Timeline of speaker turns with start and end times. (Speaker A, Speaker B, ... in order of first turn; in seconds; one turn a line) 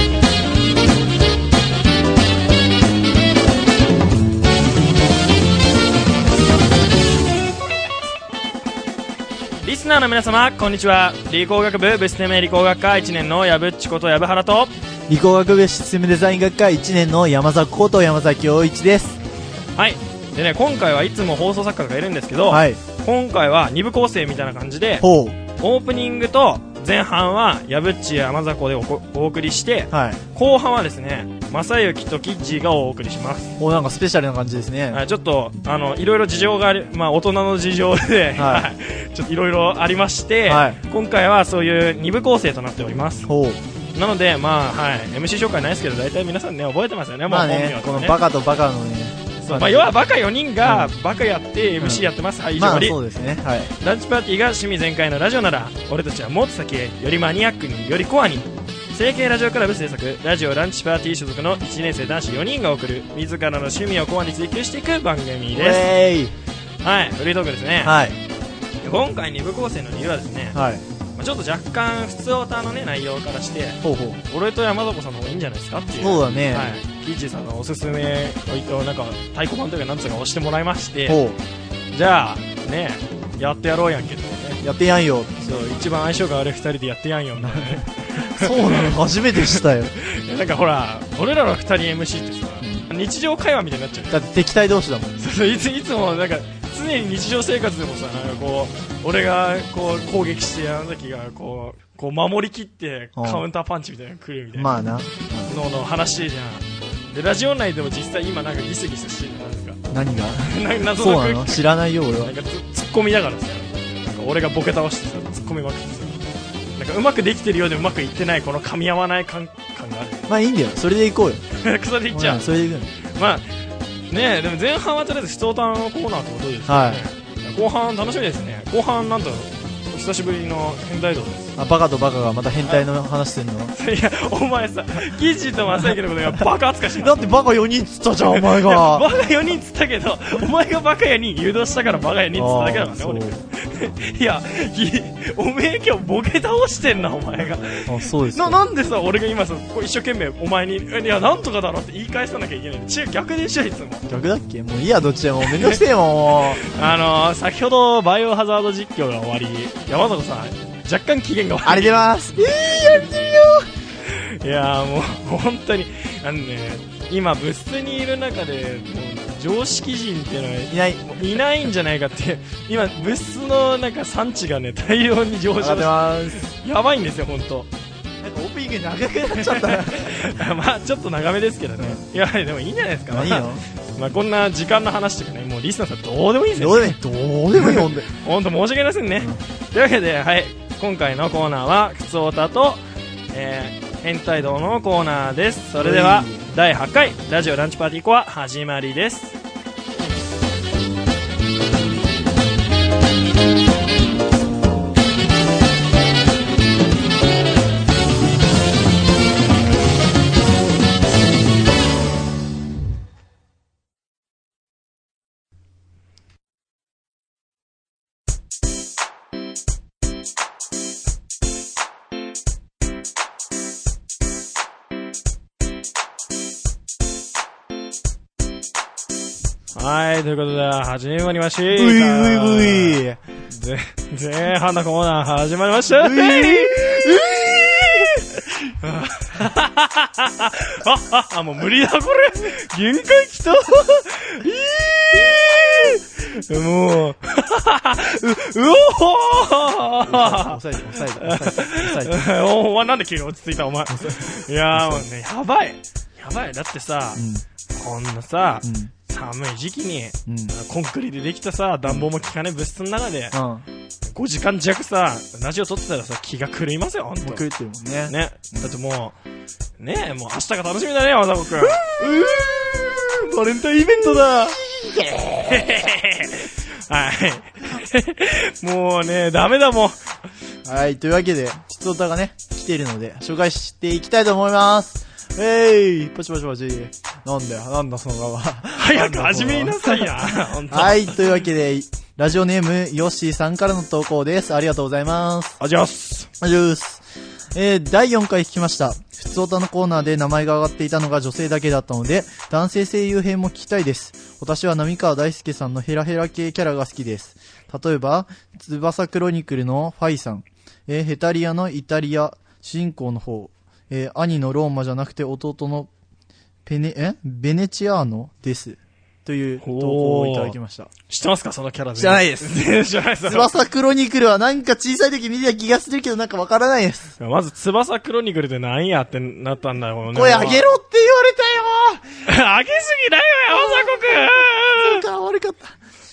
Speaker A: 9.6-14.7
Speaker B: 15.1-19.2
Speaker A: 19.8-25.1
Speaker B: 22.5-22.8
Speaker B: 25.0-25.4
Speaker A: 25.6-33.6
Speaker B: 29.9-30.2
Speaker B: 33.6-35.0
Speaker A: 34.9-43.3
Speaker B: 38.4-38.7
Speaker B: 40.5-40.8
Speaker B: 43.3-43.6
Speaker A: 44.0-48.2
Speaker B: 47.3-49.9
Speaker A: 49.4-53.0
Speaker B: 50.6-50.9
Speaker B: 51.8-53.7
Speaker A: 53.8-65.9
Speaker B: 65.5-66.3
Speaker A: 66.8-68.0
Speaker B: 67.8-68.2
Speaker A: 68.8-70.6
Speaker B: 70.5-70.8
Speaker A: 71.2-81.2
Speaker B: 73.8-74.2
Speaker B: 76.0-76.7
Speaker B: 81.0-81.4
Speaker A: 81.9-84.6
Speaker B: 84.6-85.4
Speaker A: 85.4-94.2
Speaker B: 87.4-89.9
Speaker B: 92.6-92.9
Speaker B: 94.1-95.2
Speaker A: 95.2-104.7
Speaker B: 103.2-103.4
Speaker B: 104.5-105.5
Speaker A: 105.5-109.8
Speaker B: 109.9-112.3
Speaker A: 110.4-116.2
Speaker A: 116.8-120.3
Speaker B: 120.3-121.4
Speaker A: 121.5-122.5
Speaker B: 122.1-122.9
Speaker A: 123.1-123.5
Speaker A: 124.1-131.6
Speaker B: 126.7-127.0
Speaker B: 131.6-133.8
Speaker A: 133.7-137.2
Speaker B: 136.9-139.1
Speaker A: 138.3-154.1
Speaker B: 142.3-143.4
Speaker B: 147.8-148.6
Speaker B: 154.1-156.6
Speaker A: 155.4-155.8
Speaker A: 156.5-162.1
Speaker B: 161.6-163.7
Speaker A: 164.1-177.7
Speaker B: 170.7-171.0
Speaker B: 175.6-176.4
Speaker B: 178.2-180.4
Speaker A: 179.3-187.0
Speaker B: 183.1-183.6
Speaker B: 186.6-188.1
Speaker A: 187.6-199.4
Speaker B: 195.8-196.5
Speaker A: 229.8-237.0
Speaker B: 231.7-233.2
Speaker B: 235.9-238.4
Speaker A: 238.7-257.2
Speaker B: 250.1-252.3
Speaker B: 253.9-255.1
Speaker B: 257.2-257.4
Speaker A: 257.7-263.4
Speaker B: 258.6-258.9
Speaker B: 260.2-260.5
Speaker B: 263.3-263.7
Speaker A: 264.1-267.4
Speaker B: 267.2-268.7
Speaker A: 268.1-269.2
Speaker A: 269.8-272.1
Speaker B: 271.6-275.9
Speaker A: 273.4-274.6
Speaker A: 275.4-280.0
Speaker B: 280.6-295.6
Speaker A: 288.8-291.2
Speaker A: 295.6-296.3
Speaker B: 296.4-315.9
Speaker B: 316.7-320.9
Speaker A: 319.6-320.6
Speaker A: 321.1-323.5
Speaker B: 322.0-322.7
Speaker B: 323.2-327.1
Speaker A: 327.2-330.7
Speaker B: 330.1-332.2
Speaker A: 332.2-335.1
Speaker B: 333.5-334.0
Speaker B: 334.8-335.8